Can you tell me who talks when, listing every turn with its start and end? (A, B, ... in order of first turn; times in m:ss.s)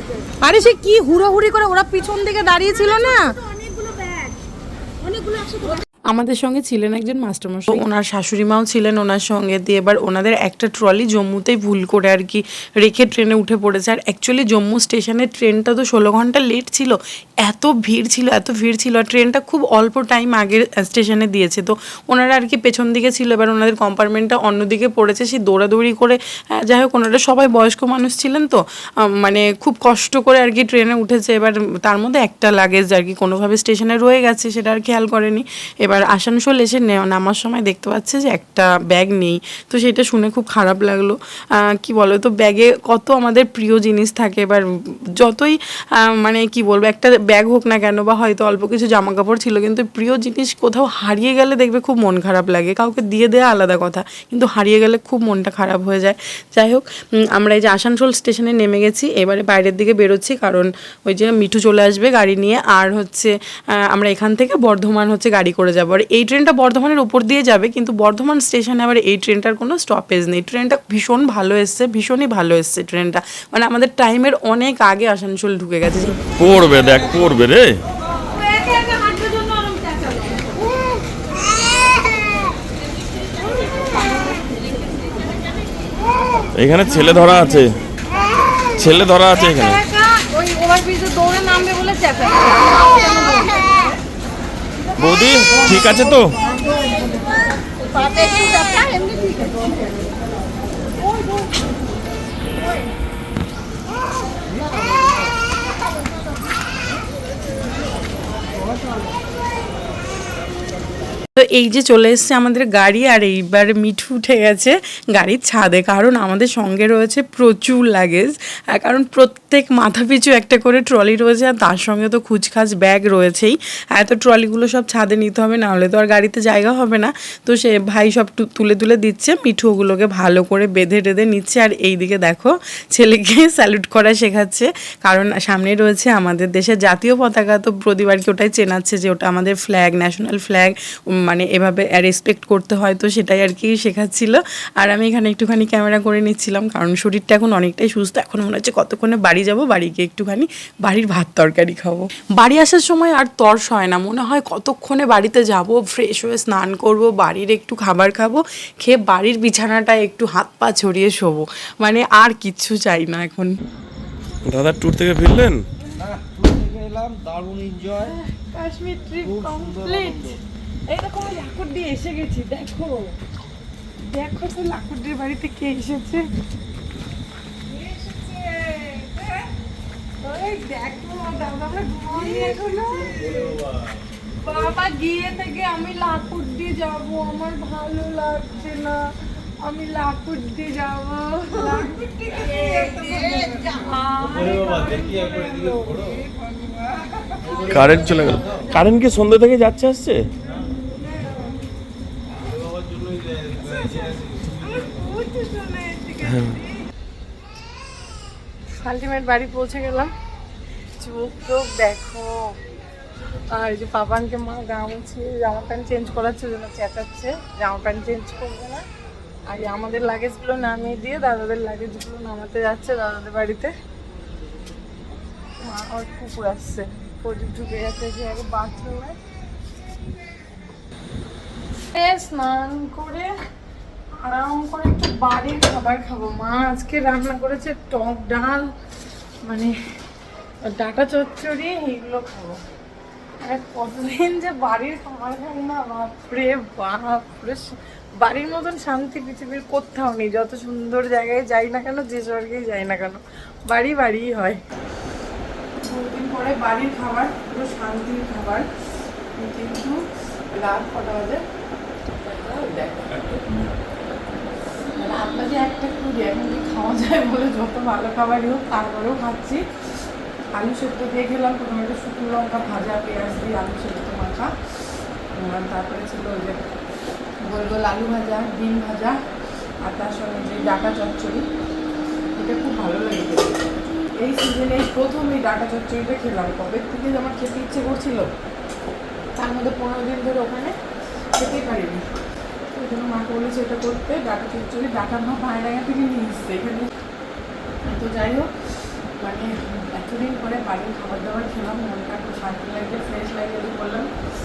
0:00.4-0:03.4 A
0:05.1-0:05.6 A
0:06.1-1:16.2 B
1:16.4-1:17.8 C
1:18.4-1:20.5 A
1:23.8-1:24.4 A
1:26.5-1:27.8 C
1:28.7-1:29.8 C
1:29.4-1:34.0 A
1:35.0-1:36.4 C
1:36.6-1:37.0 A
1:37.9-1:39.9 A
1:40.8-1:41.7 A
1:42.5-1:42.9 A
1:51.4-2:43.5 B
2:44.4-2:45.6 C
2:47.9-2:53.1 A
2:54.0-2:56.2 A
2:57.6-2:59.5 A
3:00.2-3:03.6 A
3:04.4-3:09.0 A
3:09.6-3:18.2 A
3:17.7-3:20.3 C
3:23.6-3:26.8 A
3:26.2-3:26.6 C
3:28.8-3:30.1 A
3:31.0-3:32.6 A
3:33.5-3:38.8 A
3:39.5-3:43.7 A
3:45.6-3:49.2 A
3:51.9-3:53.3 A
3:54.2-3:58.7 A
3:59.4-3:59.7 A
4:00.6-4:02.6 A
4:03.4-4:14.6 A
4:15.8-4:18.6 A
4:19.4-4:20.0 A
4:20.5-4:21.4 A
4:22.2-4:23.1 A
4:23.1-4:23.7 C
4:25.0-4:29.6 A
4:30.5-4:34.5 A
4:35.3-4:36.6 A
4:37.4-4:39.2 A
4:39.8-4:41.5 A
4:42.4-4:43.6 A
4:44.2-4:48.3 A
4:49.4-4:50.8 A
4:51.4-4:52.1 A
4:52.7-4:56.9 A
4:57.8-4:58.5 A
4:59.2-5:04.1 A